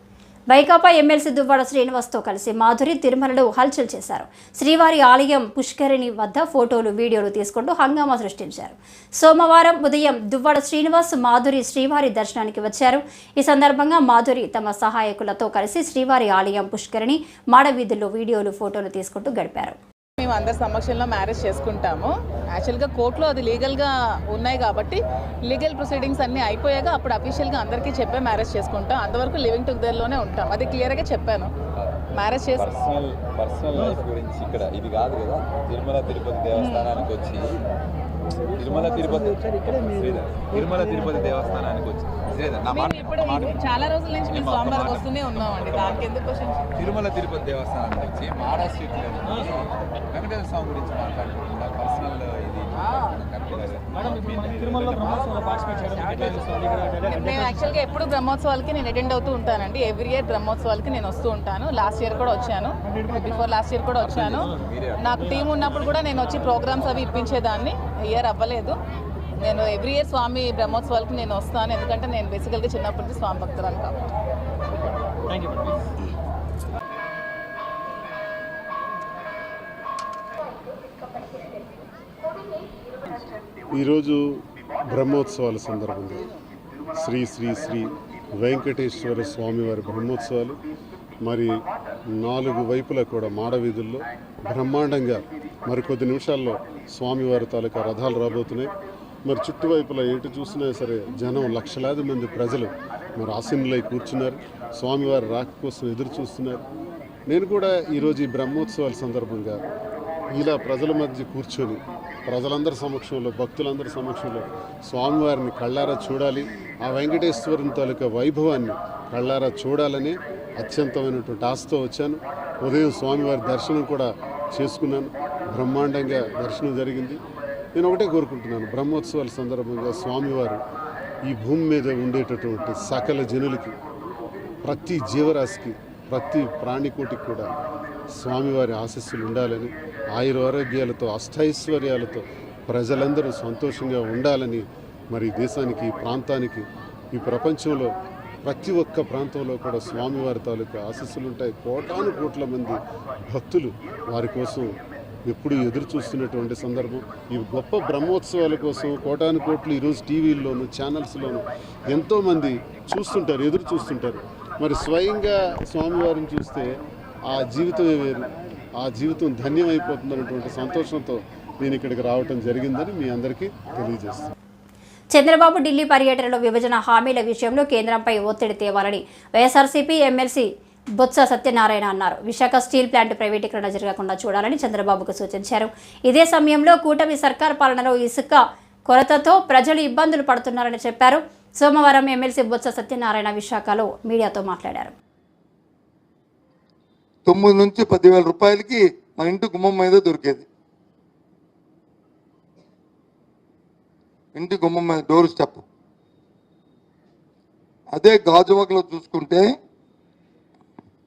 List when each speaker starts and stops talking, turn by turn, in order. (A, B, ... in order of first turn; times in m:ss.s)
0:00.5-0:19.8 A
0:20.2-0:31.5 B
0:32.2-0:32.7 B
0:32.6-0:37.5 C
0:36.6-0:37.0 B
0:38.6-0:43.7 C
0:42.7-0:46.6 B
0:44.3-0:46.0 C
0:46.8-0:56.6 C
0:52.8-0:53.1 B
0:57.0-1:08.8 B
1:04.0-1:05.0 C
1:09.4-1:14.0 B
1:23.8-1:24.4 D
1:24.9-1:26.2 D
1:27.0-1:30.6 D
1:31.2-1:31.5 D
1:32.2-1:38.7 D
1:39.3-1:46.6 D
1:47.3-1:49.6 D
1:50.3-2:07.2 D
2:07.8-2:10.6 D
2:11.3-2:13.8 D
2:14.6-2:17.5 D
2:18.2-2:27.9 D
2:28.4-2:32.8 D
2:33.3-2:34.7 D
2:35.3-2:46.7 D
2:47.3-2:48.3 D
2:48.8-2:54.3 D
2:55.1-3:15.0 A
3:17.3-3:20.5 E
3:24.4-3:25.6 E
3:27.9-3:29.4 E